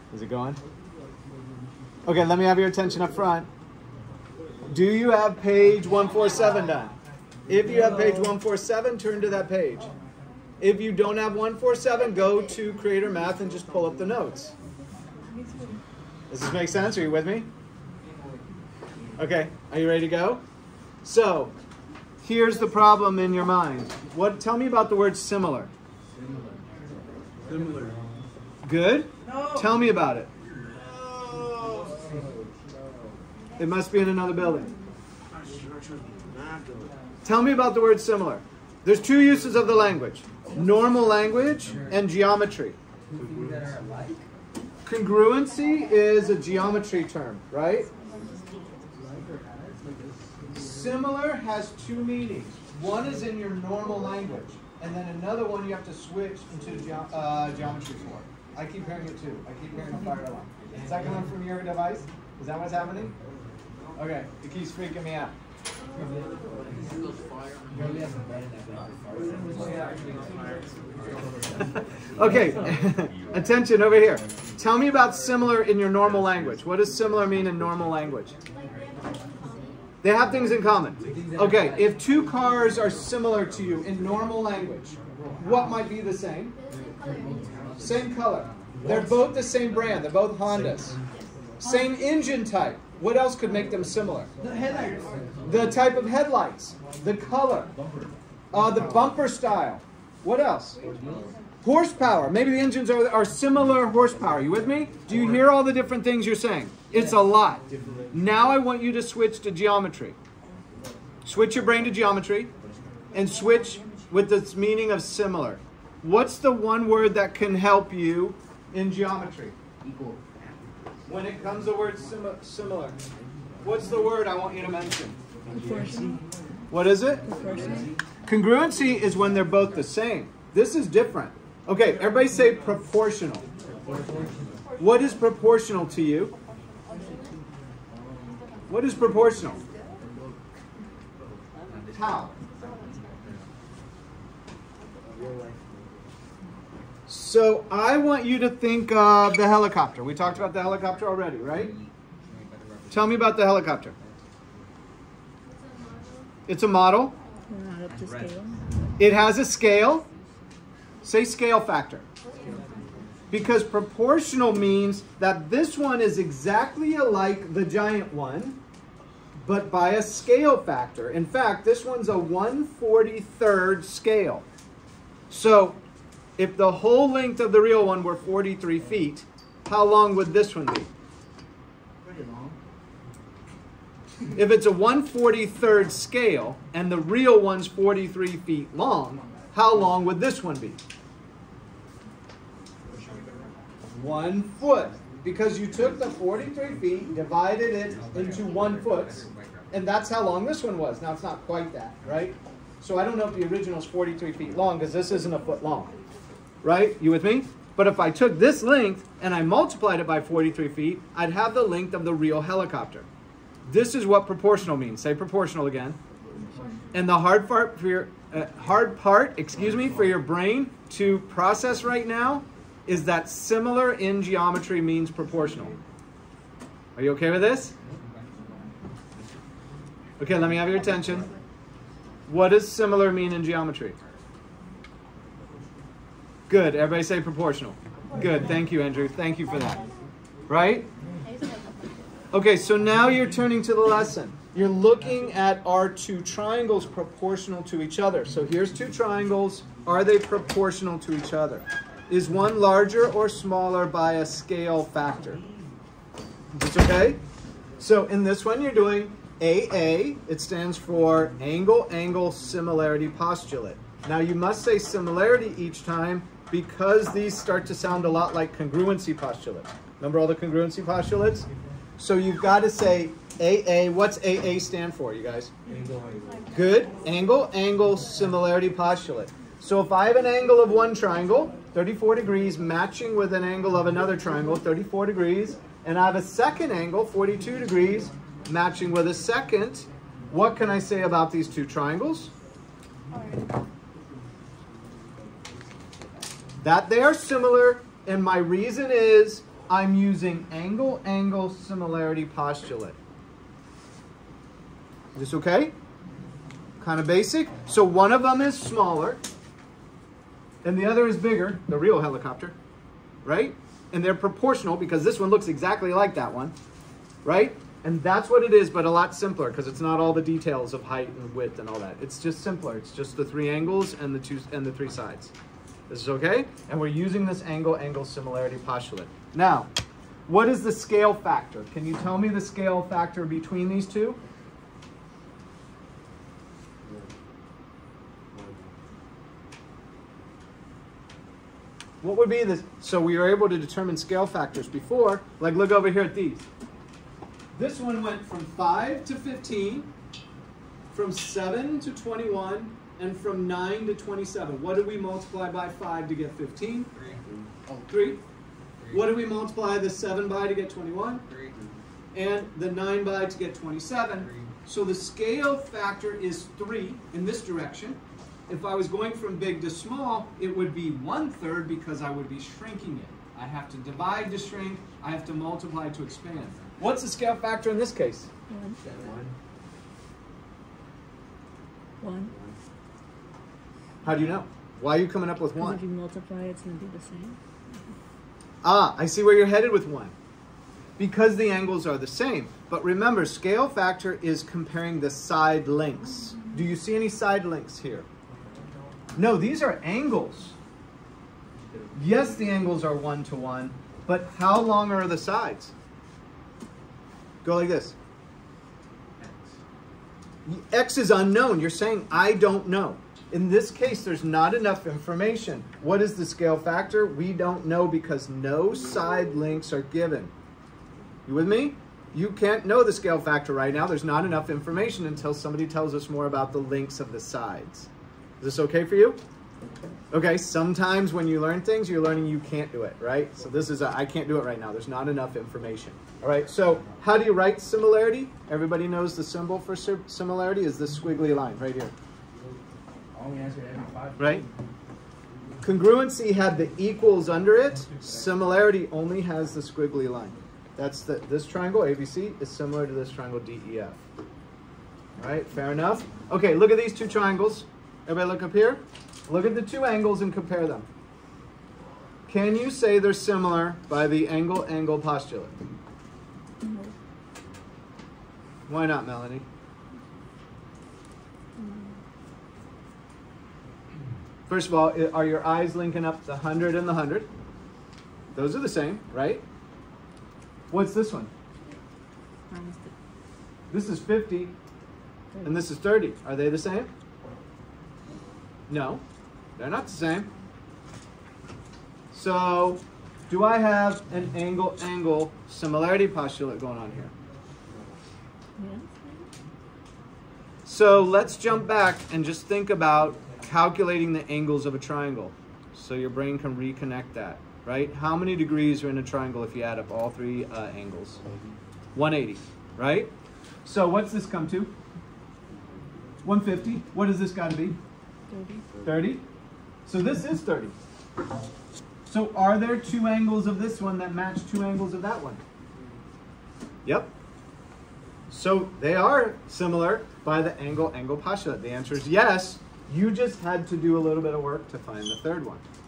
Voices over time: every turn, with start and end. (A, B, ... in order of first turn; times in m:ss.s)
0:00.1-0:00.6 A
0:02.0-0:03.5 A
0:04.7-0:06.9 A
0:07.5-0:09.9 A
0:10.6-0:14.5 A
0:16.3-0:17.5 A
0:19.2-0:20.4 A
0:21.0-0:21.5 A
0:22.2-0:25.7 A
0:27.5-0:27.9 B
0:28.6-0:30.3 A
0:31.3-0:32.0 B
0:33.6-0:34.8 A
0:37.2-0:42.8 A
0:43.2-0:44.2 B
0:44.9-0:47.9 A
0:48.9-0:50.0 B
0:50.5-1:03.1 A
1:04.0-1:05.3 A
1:07.8-1:10.5 B
1:12.1-1:18.4 A
1:20.0-1:26.6 A
1:27.8-1:31.0 A
1:31.6-1:34.3 A
1:34.5-1:35.2 B
1:35.4-1:37.7 A
1:38.5-1:40.8 A
1:41.6-1:50.2 A
1:51.2-1:52.5 A
1:53.1-1:59.6 A
1:59.8-2:00.3 B
2:01.1-2:03.0 A
2:03.6-2:05.2 A
2:05.5-2:06.2 C
2:06.7-2:07.2 A
2:07.2-2:07.9 C
2:07.6-2:07.9 B
2:08.2-2:13.4 A
2:14.8-2:16.3 A
2:18.7-2:19.6 A
2:21.9-2:22.4 A
2:27.1-2:31.8 A
2:32.9-2:33.9 A
2:36.5-2:37.1 A
2:37.5-2:38.6 C
2:39.0-2:40.0 A
2:41.0-2:42.0 A
2:43.3-2:48.6 A
2:49.4-2:54.4 A
2:55.3-2:55.8 A
2:56.4-3:00.9 A
3:02.0-3:02.5 B
3:04.3-3:10.8 A
3:13.9-3:25.9 A
3:26.6-3:33.1 A
3:33.7-3:36.0 A
3:36.9-3:45.8 A
3:46.9-3:47.7 A
3:50.2-3:51.3 A
3:52.3-3:54.0 A
3:56.5-3:59.8 A
4:00.5-4:00.9 A
4:02.3-4:15.4 A
4:16.5-4:17.2 A
4:17.8-4:35.5 A
4:36.5-4:52.3 A
4:56.6-5:03.0 A
5:05.1-5:05.7 A
5:06.8-5:09.2 A
5:10.6-5:12.6 A
5:13.2-5:16.5 A
5:17.2-5:25.3 A
5:25.9-5:29.7 A
5:30.3-5:34.2 A
5:42.0-5:46.4 A
5:47.5-5:49.9 A
5:50.9-5:56.9 A
5:57.9-5:58.2 A
5:58.9-6:01.2 A
6:02.1-6:18.3 A
6:18.5-6:18.8 C
6:19.0-6:19.3 B
6:22.0-6:22.3 C
6:24.0-6:25.8 A
6:25.6-6:27.4 C
6:28.6-6:30.1 A
6:31.0-6:38.1 A
6:39.2-6:40.5 A
6:41.9-6:45.7 A
6:47.4-6:48.0 A
6:50.4-7:00.3 A
7:01.2-7:07.9 A
7:08.4-7:09.2 A
7:10.1-7:21.9 A
7:23.1-7:24.4 B
7:24.2-7:24.4 A
7:25.6-7:34.0 A
7:35.2-7:40.8 A
7:42.3-7:45.5 A
7:46.6-7:46.9 C
7:48.7-7:49.4 A
7:51.6-7:51.9 C
7:54.5-7:57.3 A
7:58.3-7:59.4 A
8:00.7-8:01.3 A
8:02.5-8:02.9 C
8:03.7-8:04.5 A
8:05.3-8:05.6 C
8:05.4-8:06.9 A
8:08.7-8:09.0 A
8:09.6-8:10.3 A
8:12.1-8:17.1 A
8:18.6-8:19.2 C
8:20.6-8:31.2 A
8:31.9-8:33.1 A
8:33.6-8:34.7 A
8:36.2-8:37.8 A
8:38.3-8:38.6 C
8:38.8-8:39.2 A
8:39.9-8:40.7 A
8:42.0-8:45.4 A
8:46.8-8:47.1 A
8:48.3-8:55.6 A